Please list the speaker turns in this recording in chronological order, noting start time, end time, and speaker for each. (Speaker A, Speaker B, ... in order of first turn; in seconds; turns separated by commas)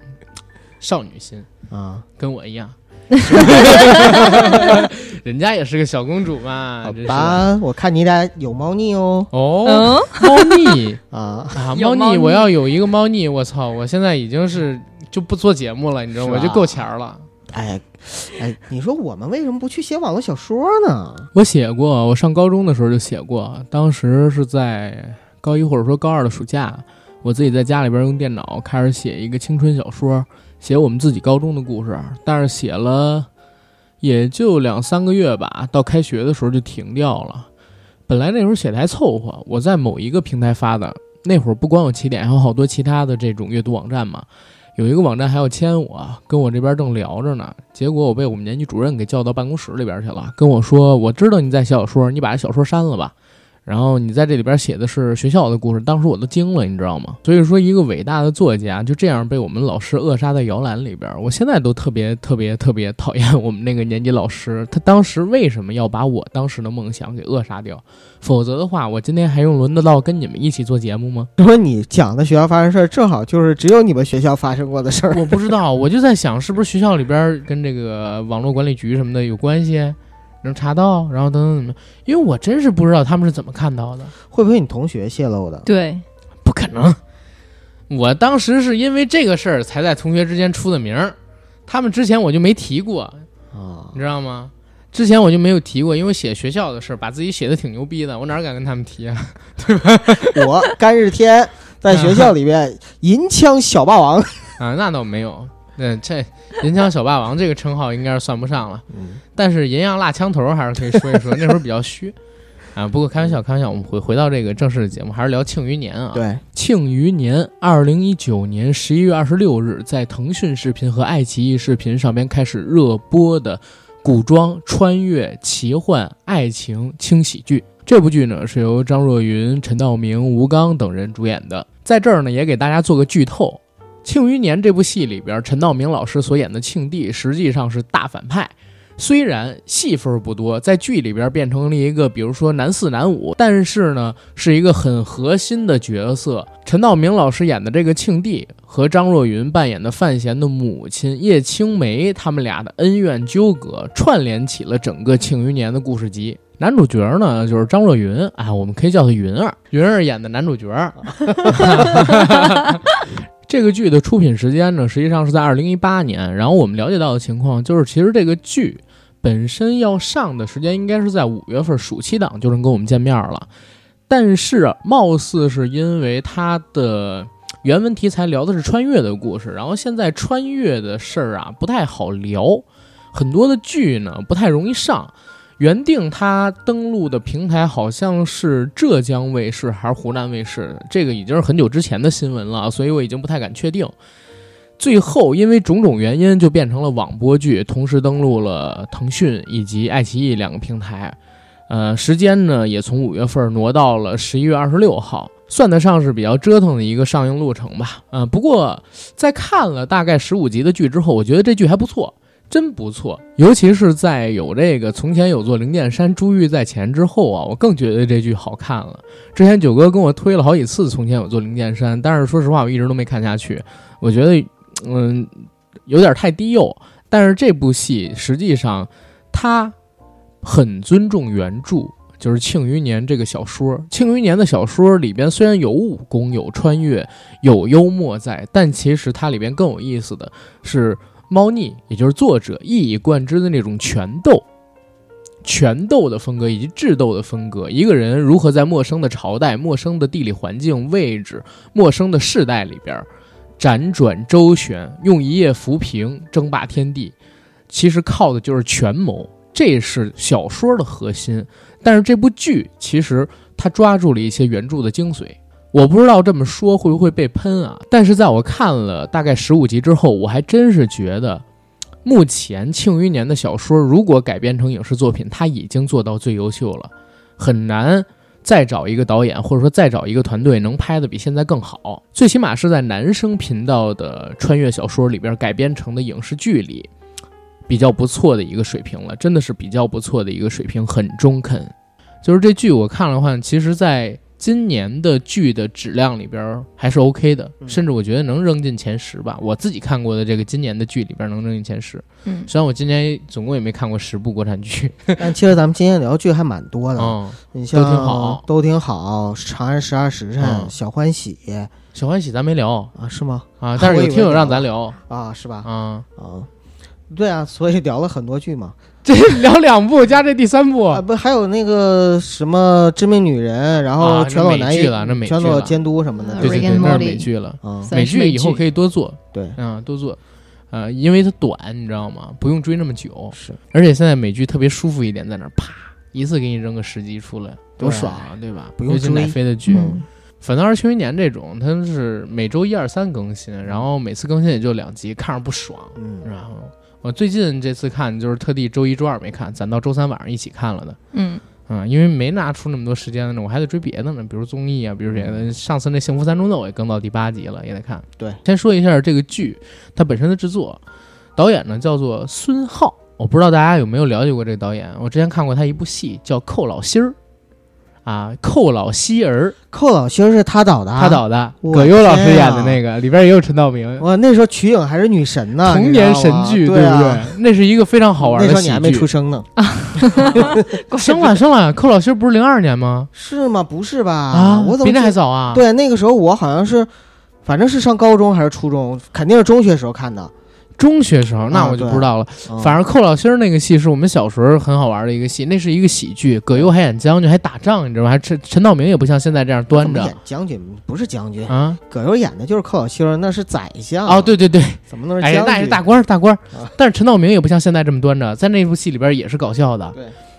Speaker A: 0.8-1.5, Speaker B: 1.7-2.0, Speaker A: 2.2-7.5, Speaker C: 3.2-4.8, Speaker B: 4.1-4.8, Speaker B: 6.8-9.3, Speaker A: 9.3-11.0, Speaker C: 9.7-10.6, Speaker B: 11.1-11.6, Speaker A: 11.5-17.2, Speaker C: 11.7-12.5, Speaker B: 16.2-16.8, Speaker B: 17.5-21.3, Speaker A: 21.3-33.3, Speaker A: 34.0-37.5, Speaker A: 38.1-53.1, Speaker A: 53.7-71.3, Speaker B: 71.4-75.4, Speaker A: 75.1-84.1, Speaker B: 84.3-85.7, Speaker C: 85.7-86.0, Speaker A: 86.4-87.0, Speaker A: 87.9-91.2, Speaker A: 91.7-93.3, Speaker B: 93.5-94.0, Speaker A: 93.9-100.5, Speaker B: 100.3-104.6, Speaker A: 101.9-102.3, Speaker A: 104.6-108.8, Speaker B: 108.9-109.2, Speaker A: 109.4-112.2, Speaker A: 112.8-162.8, Speaker B: 116.1-116.4, Speaker B: 161.2-162.1, Speaker A: 163.5-173.5, Speaker A: 174.1-193.9, Speaker A: 194.8-201.2, Speaker A: 201.7-229.8, Speaker A: 230.4-244.4, Speaker A: 245.4-253.1, Speaker A: 253.6-257.1, Speaker A: 257.7-271.4, Speaker A: 272.1-286.9, Speaker A: 287.7-305.3, Speaker C: 302.2-302.5, Speaker B: 305.2-311.7, Speaker A: 307.0-308.4, Speaker A: 310.4-310.7, Speaker A: 311.9-312.9, Speaker B: 312.9-316.5, Speaker A: 313.6-315.0, Speaker A: 315.6-316.1, Speaker B: 317.1-318.8, Speaker A: 319.0-321.0, Speaker B: 320.9-327.1, Speaker A: 324.0-325.8, Speaker C: 326.2-327.3, Speaker A: 326.4-330.2, Speaker B: 327.6-327.9, Speaker C: 327.8-328.6, Speaker A: 330.7-351.0, Speaker B: 337.8-340.1, Speaker C: 339.7-340.0, Speaker B: 346.0-346.3, Speaker C: 351.1-351.4, Speaker A: 351.7-360.8, Speaker B: 355.1-355.4, Speaker A: 361.4-367.1, Speaker A: 368.1-369.6, Speaker B: 369.7-372.8, Speaker A: 371.0-374.1, Speaker B: 374.0-377.4, Speaker A: 375.6-379.1, Speaker B: 378.2-379.5, Speaker C: 379.6-381.4, Speaker B: 380.2-380.8, Speaker A: 380.2-383.1, Speaker B: 383.1-386.9, Speaker A: 384.3-385.6, Speaker B: 387.4-390.3, Speaker A: 390.8-400.2, Speaker B: 391.5-392.8, Speaker B: 399.7-404.3, Speaker A: 401.5-401.8, Speaker A: 404.1-409.9, Speaker B: 404.9-405.8